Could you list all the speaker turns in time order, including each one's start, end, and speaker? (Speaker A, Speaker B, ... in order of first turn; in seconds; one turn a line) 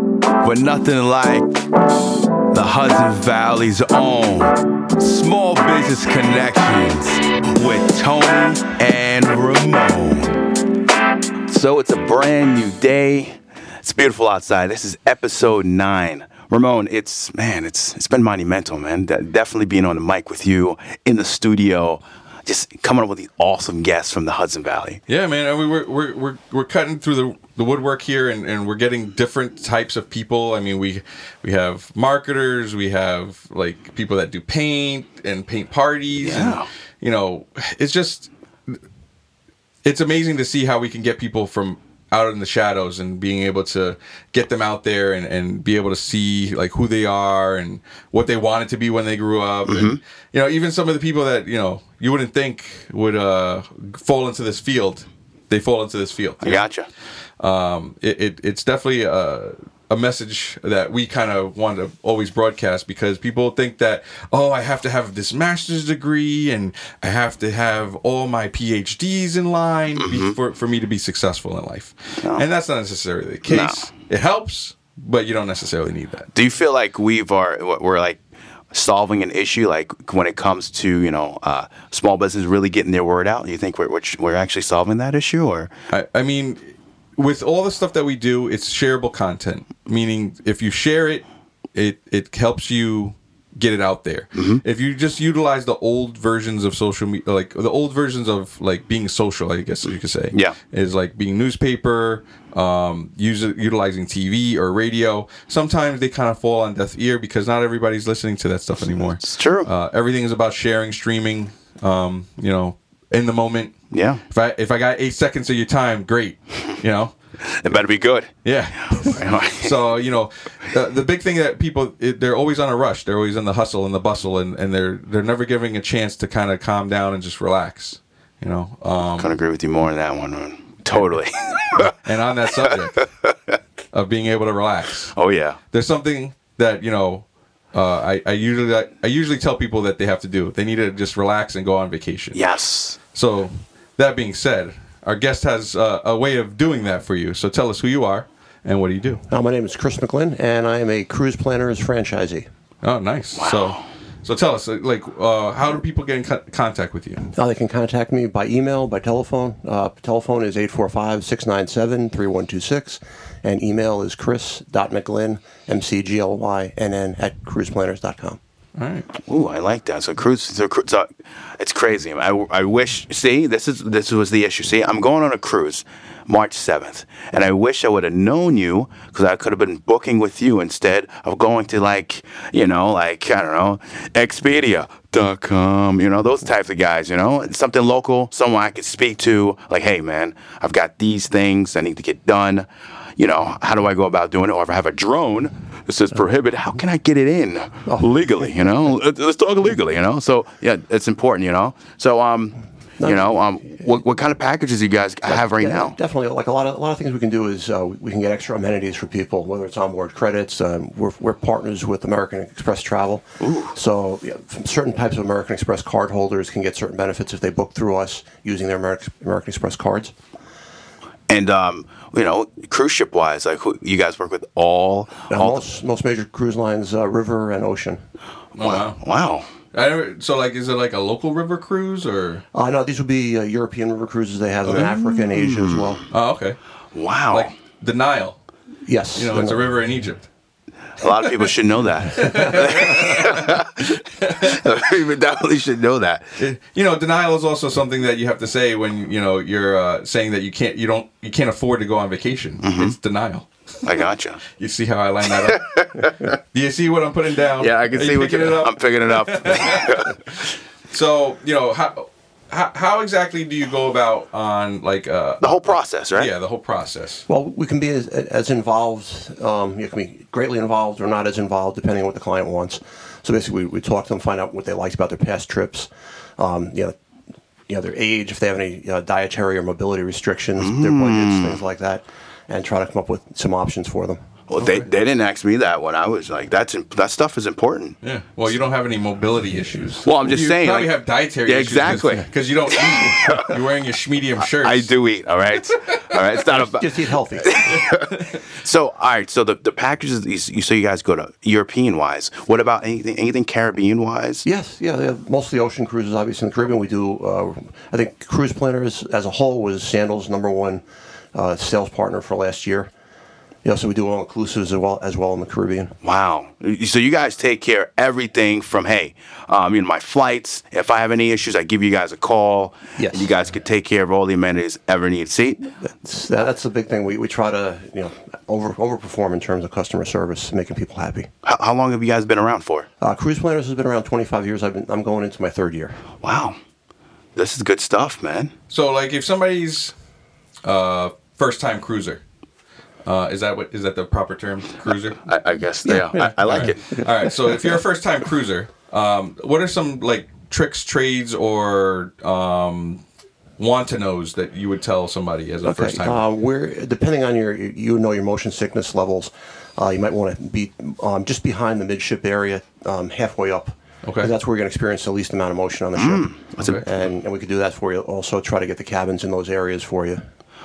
Speaker A: 0.4-1.6
Speaker A: 2.5-10.4
Speaker A: 11.5-25.0
Speaker B: 25.1-38.8
Speaker A: 36.2-36.7
Speaker B: 39.9-56.7
Speaker A: 49.7-50.0
Speaker A: 56.4-56.9
Speaker B: 57.4-76.3
Speaker A: 70.0-70.4
Speaker A: 72.2-72.5
Speaker A: 73.5-73.9
Speaker A: 76.3-78.2
Speaker A: 78.7-85.7
Speaker B: 85.9-113.7
Speaker A: 94.3-94.6
Speaker A: 100.3-100.6
Speaker A: 108.8-109.7
Speaker A: 113.9-114.2
Speaker B: 114.3-117.1
Speaker A: 117.5-118.3
Speaker B: 118.4-129.4
Speaker A: 118.9-119.9
Speaker A: 129.1-131.9
Speaker B: 131.9-133.1
Speaker A: 132.5-133.3
Speaker B: 133.9-135.1
Speaker A: 135.1-135.6
Speaker B: 135.7-142.4
Speaker A: 142.3-143.0
Speaker B: 143.1-149.2
Speaker C: 149.3-152.5
Speaker B: 152.8-157.3
Speaker A: 153.4-153.9
Speaker C: 157.3-168.4
Speaker B: 168.8-169.1
Speaker A: 169.2-206.0
Speaker C: 197.9-198.3
Speaker C: 203.0-203.9
Speaker C: 205.3-220.1
Speaker A: 213.4-213.8
Speaker A: 221.3-225.6
Speaker C: 225.3-228.0
Speaker B: 228.6-229.0
Speaker A: 228.6-229.5
Speaker B: 229.7-232.4
Speaker C: 232.5-236.0
Speaker B: 234.7-235.0
Speaker A: 235.3-235.9
Speaker B: 236.1-236.6
Speaker A: 236.9-237.5
Speaker B: 237.3-238.4
Speaker C: 238.9-239.7
Speaker B: 239.2-240.3
Speaker A: 241.0-246.4
Speaker B: 242.0-243.6
Speaker B: 244.2-244.6
Speaker B: 246.4-253.5
Speaker A: 252.6-253.0
Speaker A: 253.8-254.4
Speaker B: 254.6-260.2
Speaker A: 255.7-256.1
Speaker A: 257.6-260.1
Speaker B: 260.9-267.2
Speaker A: 265.4-266.3
Speaker C: 267.3-276.9
Speaker C: 277.7-284.2
Speaker A: 280.6-281.6
Speaker A: 284.5-288.0
Speaker B: 284.6-284.9
Speaker B: 288.0-294.9
Speaker A: 290.0-292.3
Speaker A: 293.0-293.5
Speaker A: 294.5-304.4
Speaker C: 296.4-297.6
Speaker C: 304.4-310.8
Speaker C: 311.3-312.9
Speaker C: 313.6-315.9
Speaker A: 316.0-325.7
Speaker C: 323.0-323.3
Speaker C: 325.9-331.3
Speaker A: 331.4-332.9
Speaker C: 333.0-336.0
Speaker A: 336.2-336.6
Speaker A: 337.4-338.5
Speaker B: 338.7-339.9
Speaker B: 340.6-342.2
Speaker B: 343.1-345.2
Speaker A: 345.3-347.1
Speaker C: 345.9-347.7
Speaker B: 346.4-353.0
Speaker B: 353.6-356.2
Speaker C: 355.6-370.2
Speaker B: 364.0-364.3
Speaker A: 365.9-366.8
Speaker B: 366.6-366.9